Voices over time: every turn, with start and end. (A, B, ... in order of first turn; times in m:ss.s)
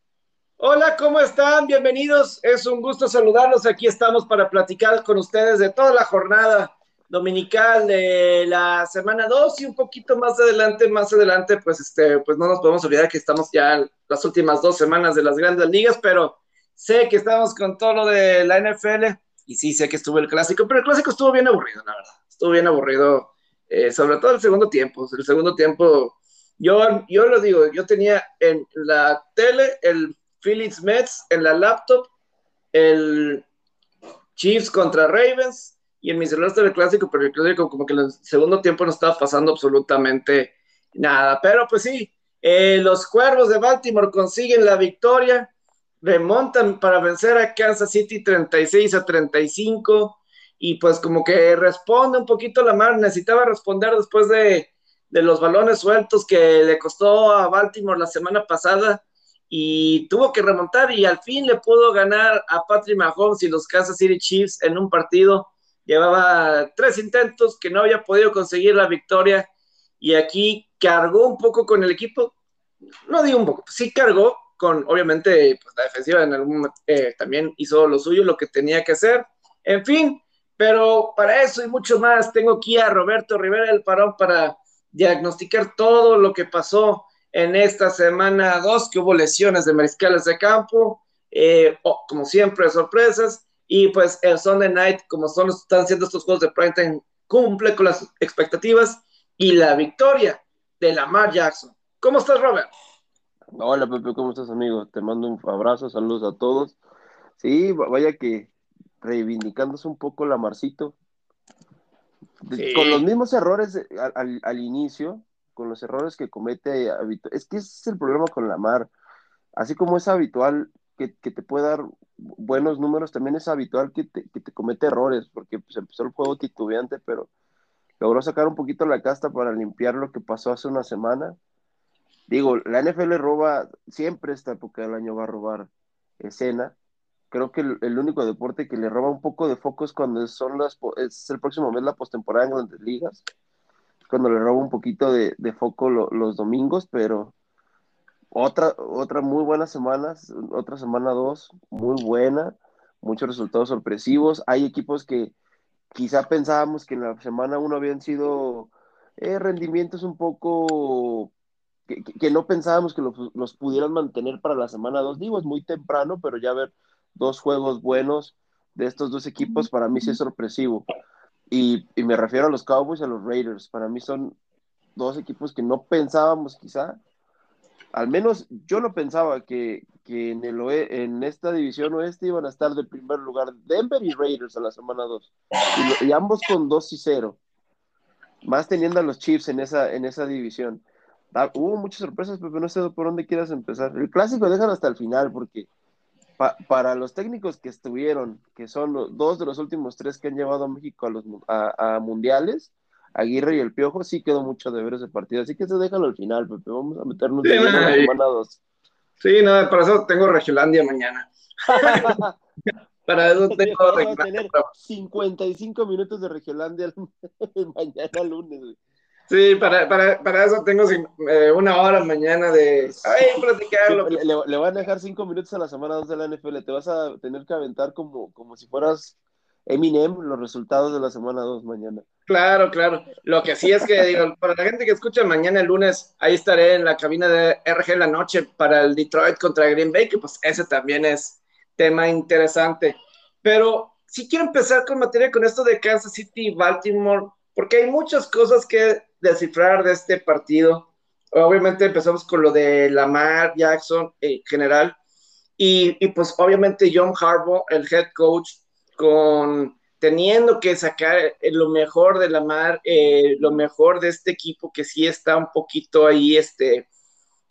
0:00.6-0:32.1 A
0:32.7-0:33.4 A
0:34.4-0:45.5 A
0:46.0-1:09.5 A
1:10.0-1:12.3 A
1:13.0-1:42.7 A
1:43.6-1:46.8 B
1:47.4-1:51.0 B
1:52.4-1:58.9 B
1:52.5-1:53.0 A
1:59.6-2:07.3 B
2:08.0-2:11.4 B
2:12.3-2:16.7 B
2:17.3-2:23.2 B
2:24.1-2:27.3 B
2:28.3-2:35.3 B
2:35.9-2:41.3 B
2:41.9-2:50.9 B
2:51.5-2:54.4 B
2:55.0-2:57.0 B
2:57.9-3:07.4 B
3:08.4-3:15.7 B
3:16.4-3:28.6 B
3:27.4-3:28.1 A
3:29.2-3:32.2 A
3:31.8-3:32.4 B
3:33.0-3:34.7 A
3:33.5-3:38.8 B
3:39.3-3:44.2 A
3:43.8-3:49.2 B
3:49.7-3:52.0 B
3:52.3-4:14.9 A
4:15.6-4:26.9 A